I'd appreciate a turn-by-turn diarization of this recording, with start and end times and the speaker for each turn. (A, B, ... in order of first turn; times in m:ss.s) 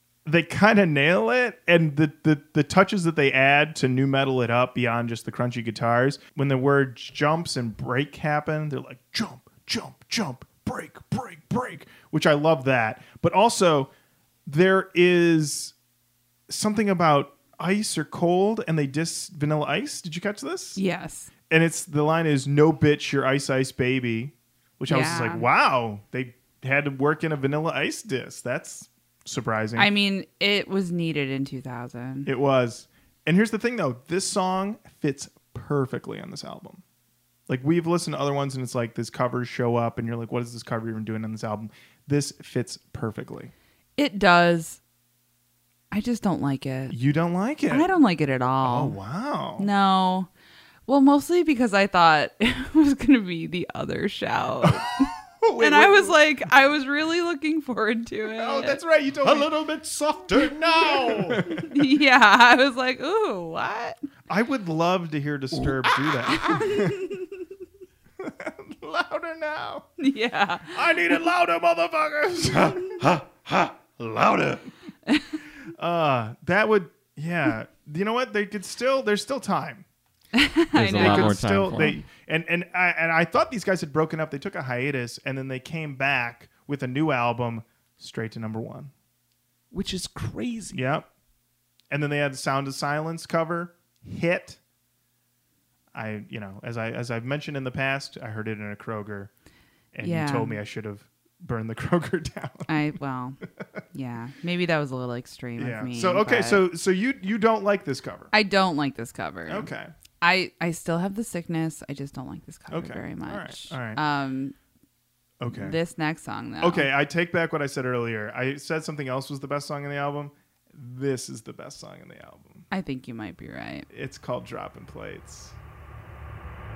0:00.2-0:13.9 A
0:14.4-0:15.7 A
0:16.5-0:20.8 A
0:20.8-0:21.3 B
0:21.5-0:29.9 A
0:24.9-0:25.4 B
0:29.8-0:32.3 B
0:32.2-0:36.8 A
0:37.5-0:43.5 A
0:44.0-0:44.8 B
0:45.9-0:47.0 B
0:46.9-0:47.9 A
0:47.7-0:48.9 B
0:48.6-0:49.7 A
0:49.6-0:50.3 B
0:50.9-0:58.8 B
0:55.4-0:56.1 A
0:58.3-0:59.5 A
0:59.2-1:01.4 C
1:01.1-1:01.7 A
1:01.6-1:04.0 B
1:04.3-1:07.1 A
1:05.5-1:06.1 C
1:06.4-1:07.2 B
1:08.2-1:09.8 A
1:10.0-1:10.7 B
1:10.7-1:13.0 A
1:12.5-1:14.6 C
1:15.8-1:19.8 A
1:20.3-1:21.4 B
1:20.7-1:22.0 C
1:20.8-1:28.9 A
1:29.7-1:30.8 C
1:30.7-1:31.1 A
1:31.9-1:34.6 A
1:35.9-1:39.3 A
1:39.9-1:42.9 A
1:40.0-1:40.6 B
1:42.7-1:43.4 B
1:43.9-1:46.6 B
1:45.6-1:48.3 A
1:48.3-1:49.7 B
1:49.5-1:49.9 A
1:50.2-1:54.5 B
1:52.7-1:54.0 A
1:55.4-1:55.8 A
1:55.5-1:56.9 B
1:56.6-2:02.6 A
2:02.7-2:03.9 B
2:03.9-2:05.5 A